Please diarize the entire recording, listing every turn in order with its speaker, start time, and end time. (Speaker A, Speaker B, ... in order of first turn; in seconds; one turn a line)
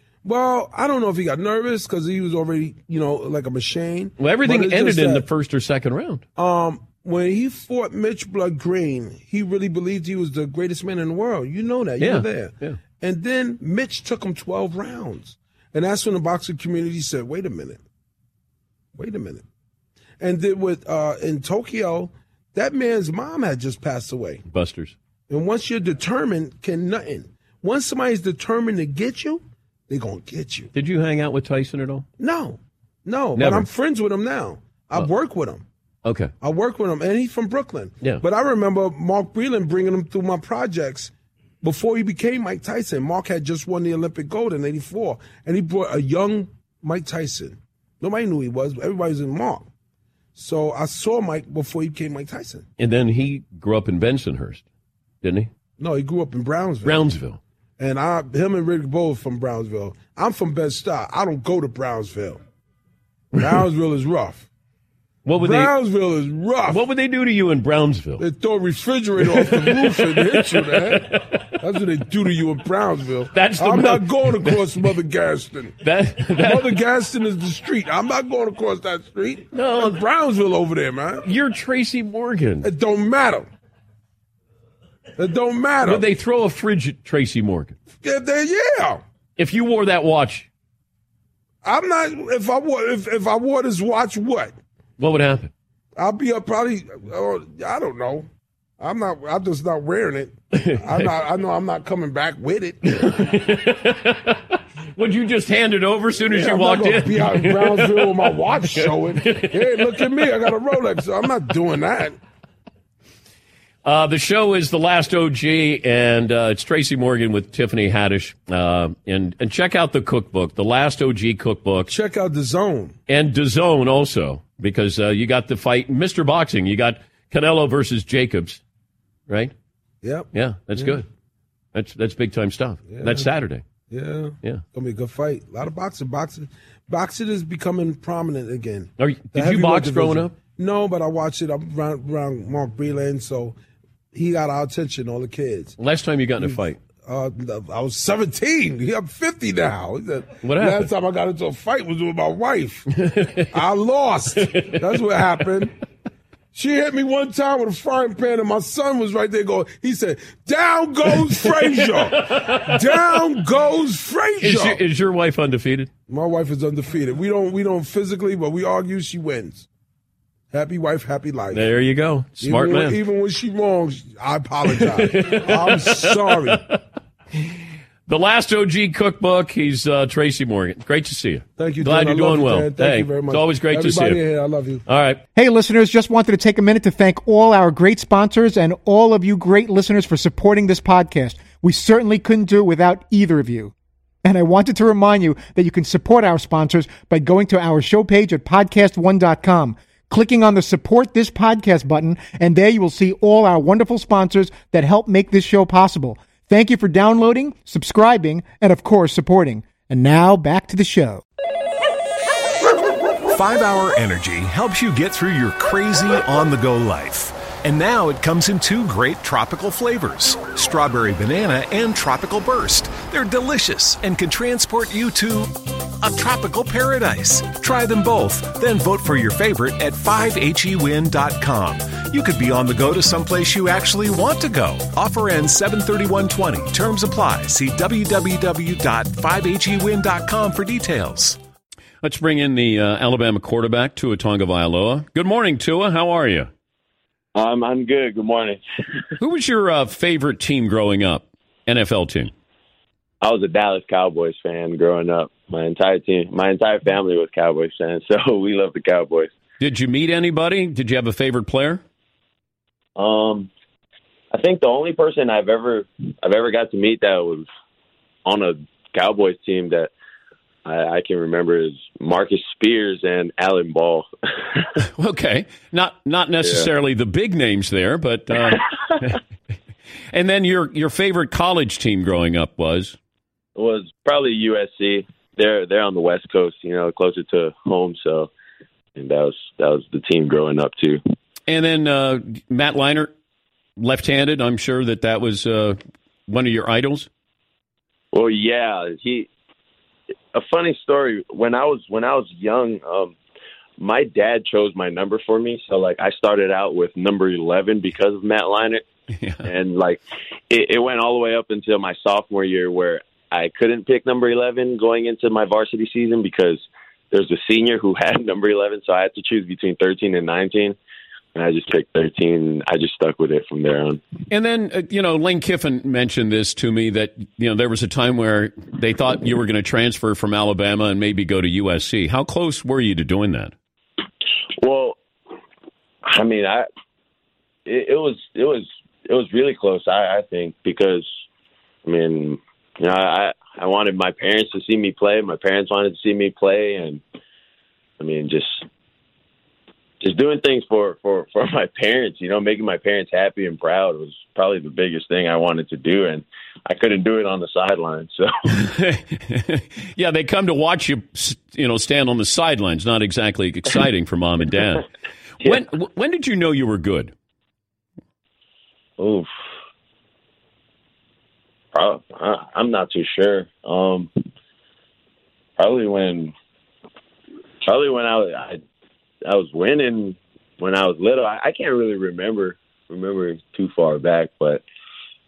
Speaker A: 0.2-5.2
Speaker B: 4.2-6.2
Speaker A: 6.3-17.8
Speaker B: 12.0-12.8
Speaker A: 18.9-19.4
Speaker A: 20.2-24.4
Speaker B: 24.5-24.9
Speaker A: 25.3-30.7
Speaker B: 30.7-32.0
Speaker A: 32.2-35.6
Speaker B: 33.4-33.7
Speaker B: 36.0-36.3
Speaker A: 36.4-41.1
Speaker A: 41.6-49.7
Speaker A: 50.4-52.6
Speaker B: 52.8-54.6
Speaker B: 55.2-55.5
Speaker A: 55.8-57.0
Speaker B: 56.8-57.4
Speaker A: 57.8-62.4
Speaker A: 63.4-64.5
Speaker B: 65.2-65.7
Speaker A: 65.4-66.8
Speaker B: 66.7-68.2
Speaker A: 68.2-75.8
Speaker B: 69.2-71.5
Speaker B: 73.3-74.9
Speaker B: 75.8-76.8
Speaker A: 76.3-81.2
Speaker B: 79.5-80.0
Speaker B: 81.2-82.7
Speaker A: 82.6-83.5
Speaker A: 85.2-86.0
Speaker B: 85.8-87.8
Speaker A: 88.0-89.0
Speaker B: 89.4-90.5
Speaker A: 91.6-94.5
Speaker B: 95.0-95.5
Speaker A: 96.0-98.3
Speaker A: 98.8-103.3
Speaker B: 100.5-101.1
Speaker B: 102.9-110.2
Speaker A: 106.3-112.2
Speaker B: 113.8-121.9
Speaker A: 121.8-122.9
Speaker B: 123.1-128.6
Speaker B: 129.3-129.5
Speaker A: 130.0-131.0
Speaker B: 130.3-131.1
Speaker B: 131.7-133.6
Speaker A: 132.9-133.3
Speaker A: 133.9-143.6
Speaker B: 139.0-140.3
Speaker A: 144.1-145.8
Speaker B: 145.8-146.8
Speaker A: 146.4-152.9
Speaker B: 150.4-150.9
Speaker B: 153.0-153.5
Speaker A: 153.5-155.7
Speaker B: 154.5-154.8
Speaker A: 156.5-164.8
Speaker B: 161.4-163.0
Speaker B: 164.4-165.9
Speaker A: 166.1-169.7
Speaker A: 170.5-171.7
Speaker B: 171.5-173.0
Speaker A: 172.4-176.6
Speaker B: 174.7-176.8
Speaker B: 178.1-184.2
Speaker A: 181.6-184.8
Speaker B: 184.9-185.2
Speaker C: 185.3-193.7
Speaker C: 194.2-211.2
Speaker D: 213.3-241.4
Speaker B: 242.0-246.5
Speaker E: 247.3-248.6
Speaker B: 249.2-252.3
Speaker E: 253.2-259.3
Speaker B: 259.6-261.8
Speaker E: 262.9-263.5
Speaker E: 264.3-267.5
Speaker E: 268.2-269.9
Speaker E: 270.6-274.6
Speaker B: 274.9-279.2
Speaker E: 276.4-276.7
Speaker B: 280.1-282.9
Speaker E: 283.6-288.3
Speaker E: 288.9-291.0
Speaker B: 291.5-293.1
Speaker B: 293.8-297.1
Speaker E: 298.1-299.3
Speaker E: 300.3-303.1
Speaker E: 303.8-308.8
Speaker B: 309.1-309.4
Speaker E: 309.4-320.8
Speaker E: 321.3-324.0
Speaker B: 324.3-333.5
Speaker E: 334.6-335.0
Speaker E: 336.0-336.7
Speaker E: 337.6-341.1
Speaker E: 341.8-347.0
Speaker E: 348.0-348.6
Speaker E: 350.0-358.3
Speaker B: 358.5-364.9
Speaker B: 365.4-367.1
Speaker E: 369.0-369.3
Speaker E: 371.7-374.1
Speaker E: 375.6-376.3
Speaker E: 377.6-378.6
Speaker E: 379.2-384.6